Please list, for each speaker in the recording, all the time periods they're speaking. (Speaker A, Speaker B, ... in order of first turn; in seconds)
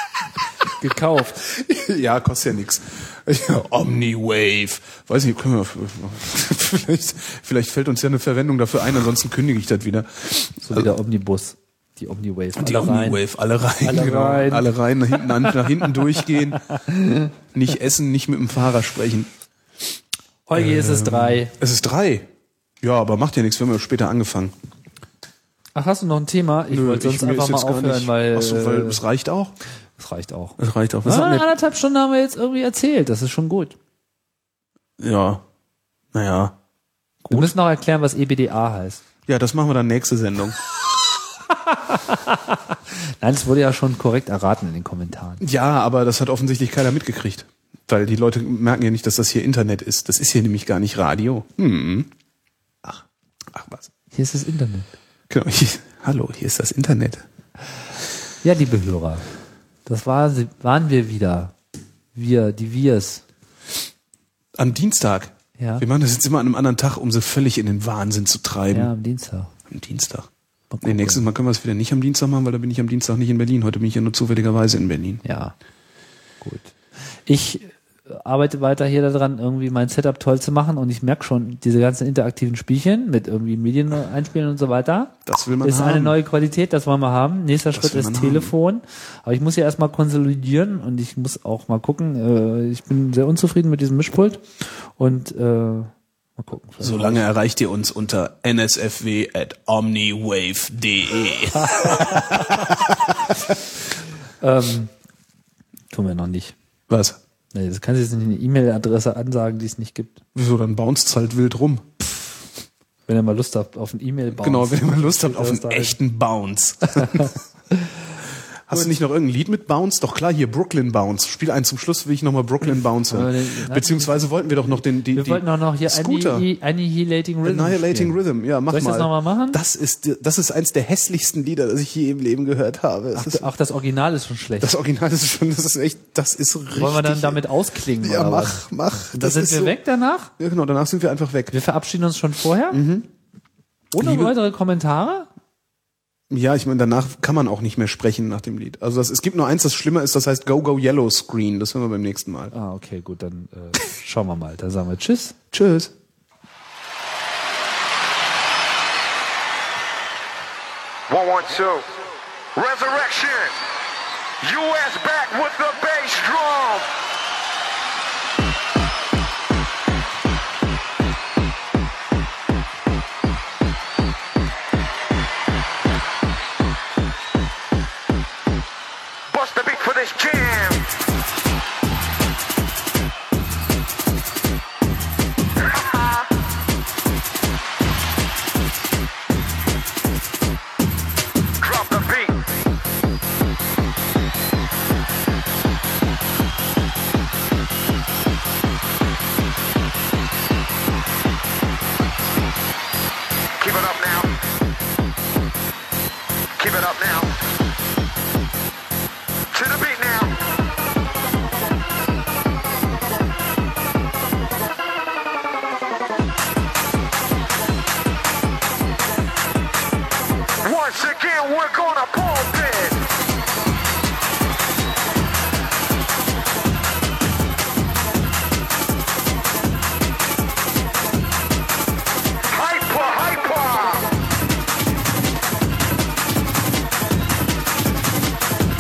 Speaker A: 0.8-1.4, 10.6-13.2, 13.8-14.7, 15.4-15.7, 16.5-17.3, 20.5-21.5, 25.8-29.0, 30.0-33.8, 37.3-39.0, 41.5-45.4, 54.1-54.9, 58.4-59.2, 59.9-61.5, 62.1-63.2, 65.6-65.9, 68.7-69.5, 70.7-71.3, 75.2-75.5, 76.4-97.2, 101.8-102.5, 104.4-104.9, 105.9-106.5, 107.5-110.2, 113.1-116.0, 117.0-118.0, 122.6-124.2, 125.1-129.6, 133.2-134.7, 136.7-140.3, 141.5-142.8, 143.9-145.3, 152.5-155.4
Speaker B: 1.4-10.9, 12.6-16.6, 17.5-19.3, 20.6-22.3, 22.8-24.5, 26.7-29.6, 30.6-31.5, 35.0-35.4, 36.1-36.6, 37.2-37.5, 39.3-40.6, 45.4-52.1, 53.5-53.9, 55.3-57.2, 64.6-68.9, 69.7-70.3, 70.8-75.2, 85.3-86.2, 87.7-88.5, 96.8-103.5, 106.9-107.2, 110.3-112.0, 114.4-117.4, 118.7-126.5, 127.4-133.5, 134.6-139.8, 140.4-141.5, 142.7-143.1, 144.0-144.3, 146.3-152.5, 155.5-155.9
Speaker C: 161.1-162.0, 162.6-163.6, 164.4-166.9, 179.3-180.9, 185.6-186.3, 191.6-192.4, 203.6-204.4, 206.6-207.3, 209.5-210.4, 220.6-223.0, 232.5-234.1